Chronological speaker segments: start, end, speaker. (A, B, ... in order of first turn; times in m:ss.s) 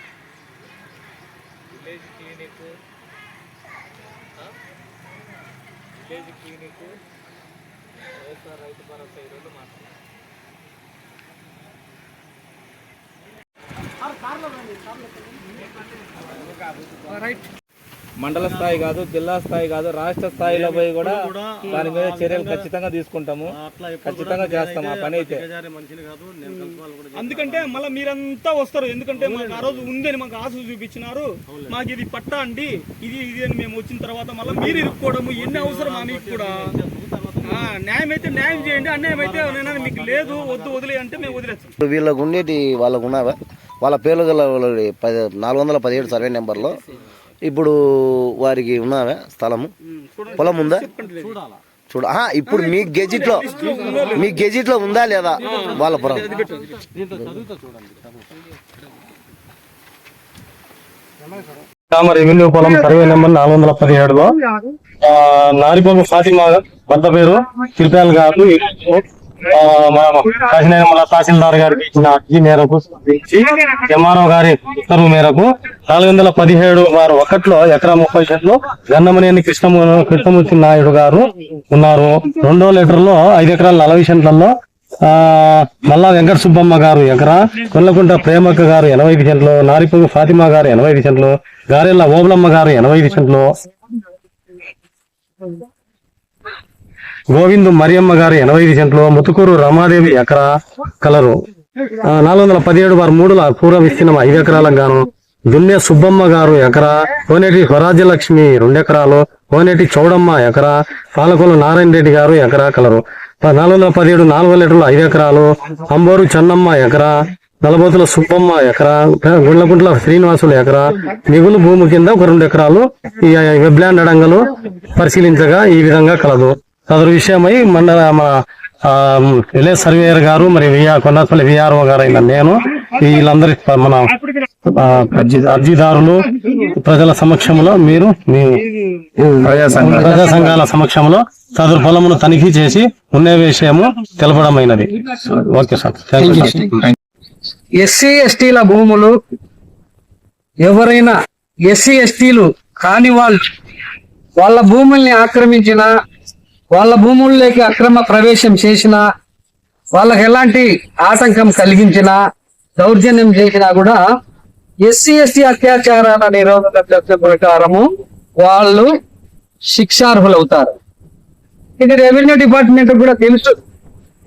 0:01.7-0:02.7 A
0:06.1-0:06.9 A
0:08.2-0:09.9 A
0:18.2-0:25.4 A
0:18.3-0:18.9 B
0:20.3-0:22.7 B
0:23.5-0:28.0 B
0:27.2-0:36.7 C
0:29.1-0:29.9 B
0:31.5-0:31.8 B
0:34.4-0:37.7 B
0:37.4-0:41.7 C
0:38.3-0:41.4 B
0:41.8-0:46.8 D
0:47.4-0:49.7 D
0:49.9-0:51.4 C
0:50.4-0:50.9 D
0:51.2-0:51.6 B
0:51.9-0:53.5 D
0:52.6-0:54.3 C
0:53.5-0:54.2 B
0:54.1-0:56.4 D
0:55.4-0:58.4 B
0:55.4-0:56.7 C
1:01.3-1:04.3 B
1:05.0-1:21.2 B
1:21.7-1:24.5 B
1:25.0-1:33.5 B
1:37.3-1:40.4 B
1:41.0-1:41.4 B
1:42.0-2:04.4 B
2:04.9-2:08.3 B
2:08.9-2:14.1 B
2:14.7-2:18.6 B
2:19.2-2:26.8 B
2:27.8-2:29.1 E
2:30.6-2:31.2 E
2:31.7-2:33.4 E
2:34.4-2:35.9 E
2:36.7-2:39.0 E
2:39.9-2:42.2 E
2:42.8-2:44.0 E
2:44.8-2:47.9 E
2:48.4-2:48.9 E
2:49.7-2:50.8 E
2:51.8-2:53.6 E